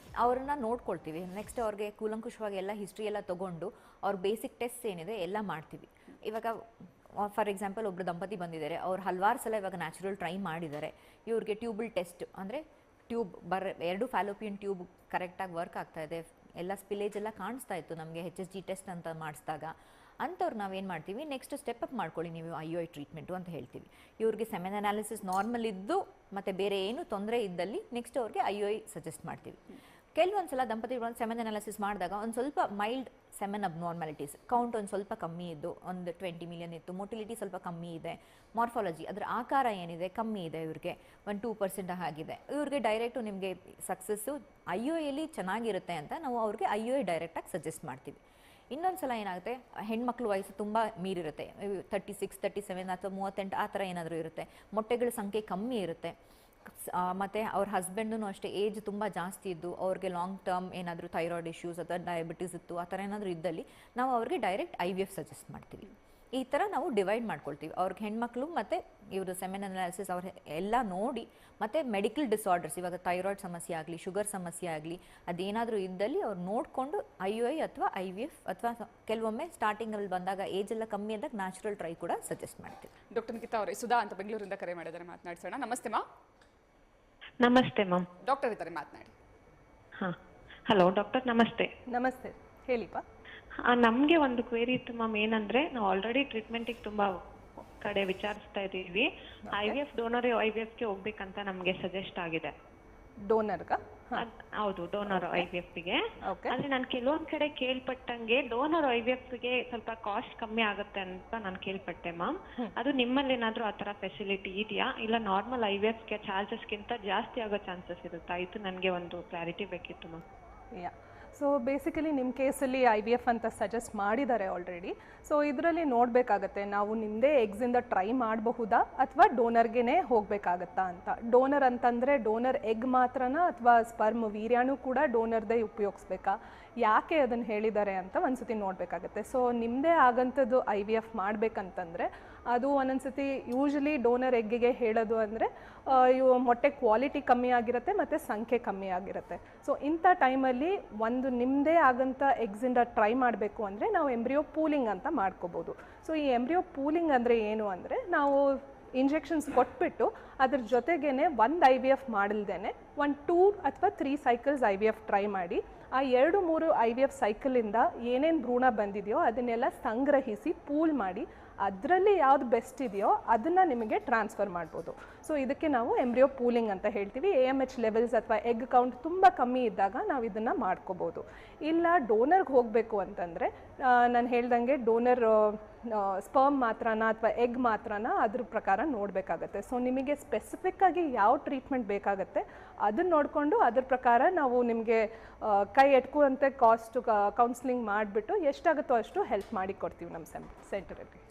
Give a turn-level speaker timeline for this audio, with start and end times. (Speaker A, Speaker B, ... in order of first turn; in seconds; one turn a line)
Speaker A: 0.2-29.6
Speaker A: 30.1-48.2
Speaker A: 48.7-82.9
Speaker B: 83.1-86.0
Speaker C: 87.4-88.1
Speaker B: 88.2-89.1
Speaker C: 90.0-91.7
Speaker D: 91.9-93.0
Speaker C: 93.7-97.2
Speaker C: 97.8-102.5
Speaker D: 99.5-99.8
Speaker D: 103.2-104.2
Speaker C: 104.2-120.2
Speaker D: 105.1-105.5
Speaker D: 106.2-106.5
Speaker D: 120.7-201.2